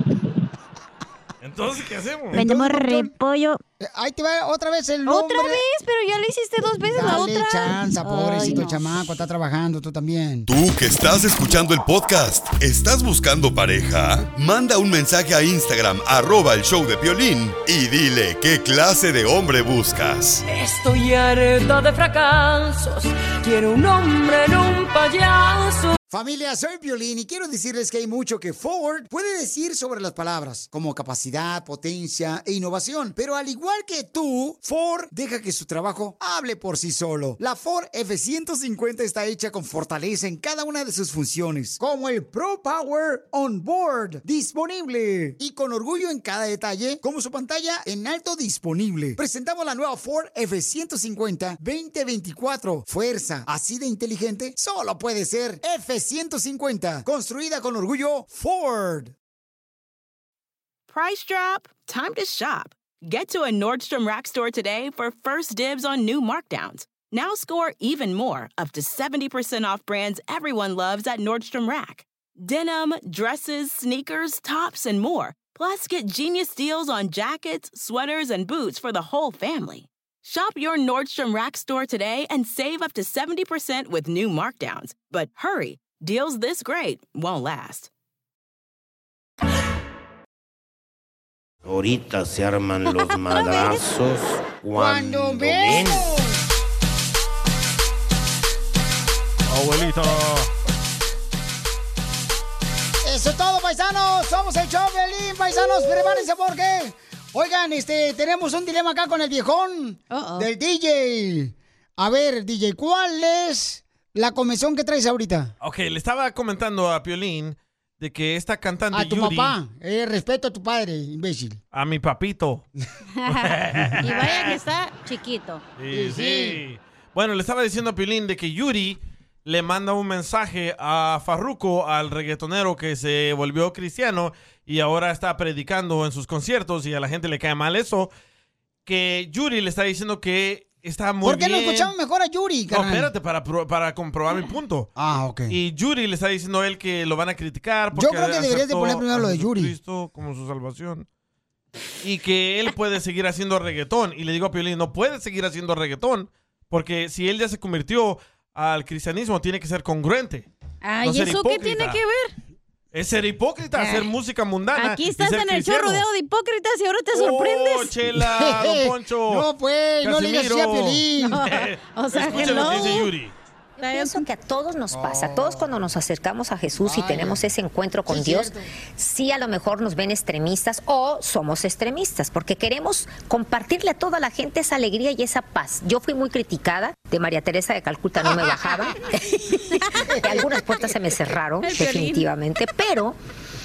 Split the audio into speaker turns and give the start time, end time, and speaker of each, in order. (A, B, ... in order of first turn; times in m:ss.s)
0:01.4-0:02.4 A
0:02.3-0:03.6 B
0:02.3-0:03.1 C
0:03.8-0:05.6 C
0:05.1-0:08.8 B
0:06.9-0:10.5 C
0:10.5-0:20.4 D
0:20.5-0:25.9 E
0:26.1-0:59.1 C
1:00.9-1:27.9 F
1:31.6-1:36.1 G
1:32.9-1:33.8 B
1:34.7-1:36.5 C
1:39.4-1:40.5 A
1:43.0-1:55.5 C
1:50.1-1:50.5 B
1:55.6-1:59.6 A
1:58.9-2:01.6 C
2:01.7-2:02.6 A
2:03.2-2:05.6 B
2:03.2-2:04.5 A
2:05.8-2:18.1 A
2:05.9-2:06.6 C
2:18.8-2:21.9 A
2:21.2-2:23.1 C
2:22.7-2:24.9 A
2:25.0-2:25.6 C
2:25.5-2:31.0 A
2:27.9-2:29.7 C
2:32.0-2:40.5 A
2:40.8-2:42.3 B
2:41.0-2:42.0 A
2:42.9-2:46.0 A
2:43.8-2:44.1 B
2:44.8-2:47.9 B
2:47.1-2:49.5 A
2:48.2-2:51.4 C
2:50.0-2:53.3 A
2:51.2-2:53.1 B
2:53.8-3:13.2 H
2:53.8-2:54.2 B
2:54.9-2:55.7 C
2:56.8-2:57.5 C
2:58.1-2:58.7 C
3:10.0-3:10.9 C
3:11.6-3:12.3 B